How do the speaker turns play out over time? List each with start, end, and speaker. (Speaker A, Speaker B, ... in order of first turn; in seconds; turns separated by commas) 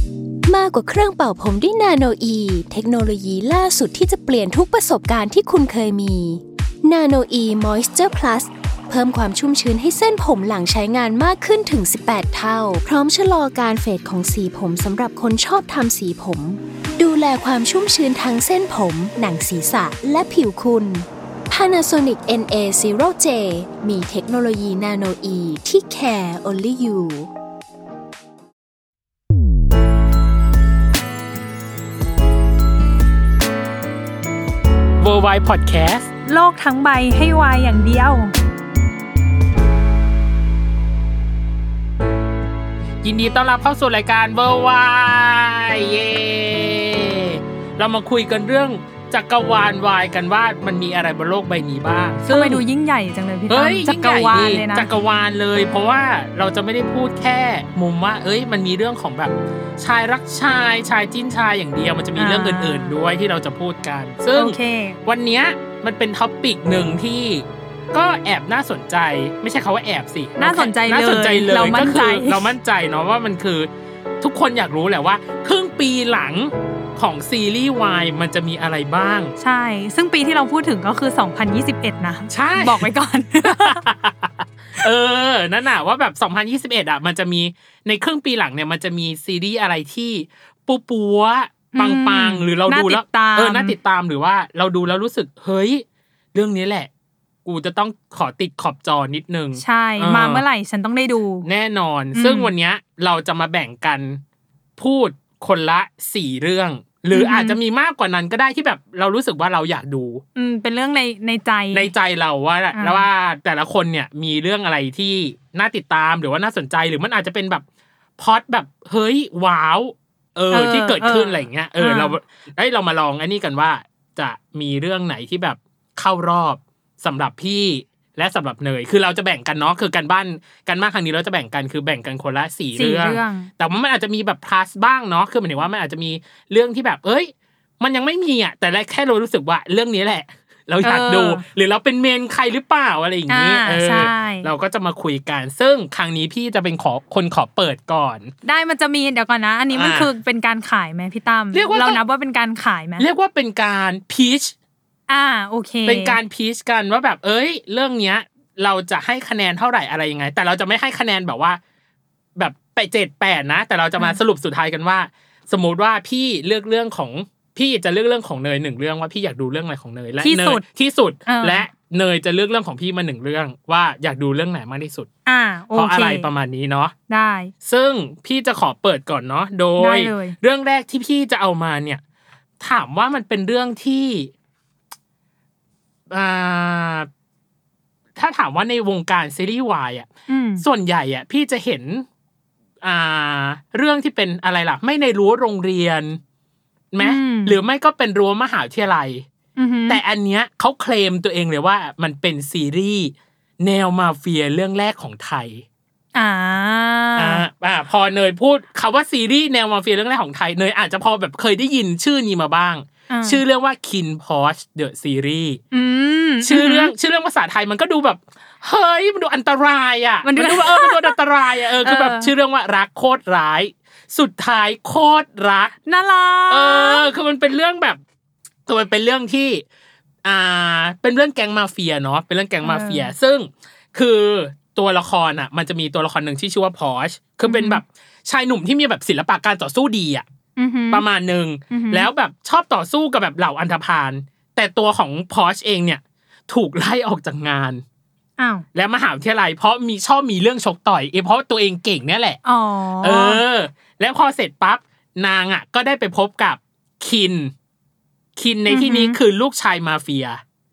Speaker A: 0.5-27.3, Speaker B: 35.0-36.1, Speaker C: 36.3-38.3, Speaker B: 43.0-52.6, Speaker C: 52.3-54.9, Speaker B: 53.5-73.7, Speaker C: 62.2-63.0, Speaker C: 64.3-65.0, Speaker C: 70.4-72.5, Speaker B: 74.2-79.3, Speaker C: 79.4-83.8, Speaker B: 82.3-82.9, Speaker B: 83.4-96.9, Speaker C: 91.7-93.8, Speaker B: 97.5-100.4, Speaker C: 99.6-101.5, Speaker B: 101.4-104.2, Speaker C: 102.1-102.5, Speaker B: 104.8-110.2, Speaker C: 107.1-107.6, Speaker C: 110.3-111.9, Speaker B: 111.7-117.7, Speaker C: 112.7-113.1, Speaker B: 118.2-148.3, Speaker C: 120.5-122.2, Speaker C: 132.8-133.5, Speaker C: 140.8-141.5, Speaker C: 143.3-144.5, Speaker C: 148.4-153.1, Speaker B: 149.7-150.1, Speaker B: 151.5-152.0, Speaker B: 153.0-154.5, Speaker C: 155.1-156.2, Speaker B: 155.8-161.6, Speaker B: 162.4-175.1, Speaker C: 170.2-170.6, Speaker C: 171.3-171.7, Speaker C: 175.3-176.3, Speaker B: 175.7-176.9, Speaker C: 177.1-177.5, Speaker B: 177.6-182.0, Speaker C: 179.8-180.4, Speaker B: 182.6-184.3, Speaker B: 186.1-187.1, Speaker B: 188.2-190.1, Speaker C: 190.3-190.7, Speaker B: 190.6-192.1, Speaker B: 192.8-196.2, Speaker B: 196.9-199.3, Speaker C: 197.0-197.6, Speaker C: 199.6-200.0, Speaker B: 199.9-205.7, Speaker C: 206.2-207.4, Speaker B: 207.2-215.6, Speaker C: 213.1-213.4, Speaker C: 215.7-216.9, Speaker B: 216.4-225.7, Speaker C: 220.2-221.2, Speaker C: 221.8-222.3, Speaker C: 225.9-227.1, Speaker B: 226.5-228.0, Speaker B: 228.7-229.7, Speaker B: 230.2-240.3, Speaker C: 232.6-233.1, Speaker C: 237.4-237.8, Speaker C: 240.6-241.1, Speaker B: 240.9-247.8, Speaker C: 241.7-242.1, Speaker C: 248.4-248.7, Speaker B: 248.7-252.4, Speaker C: 252.4-253.4, Speaker B: 253.0-257.5, Speaker B: 258.4-260.4, Speaker C: 258.7-259.2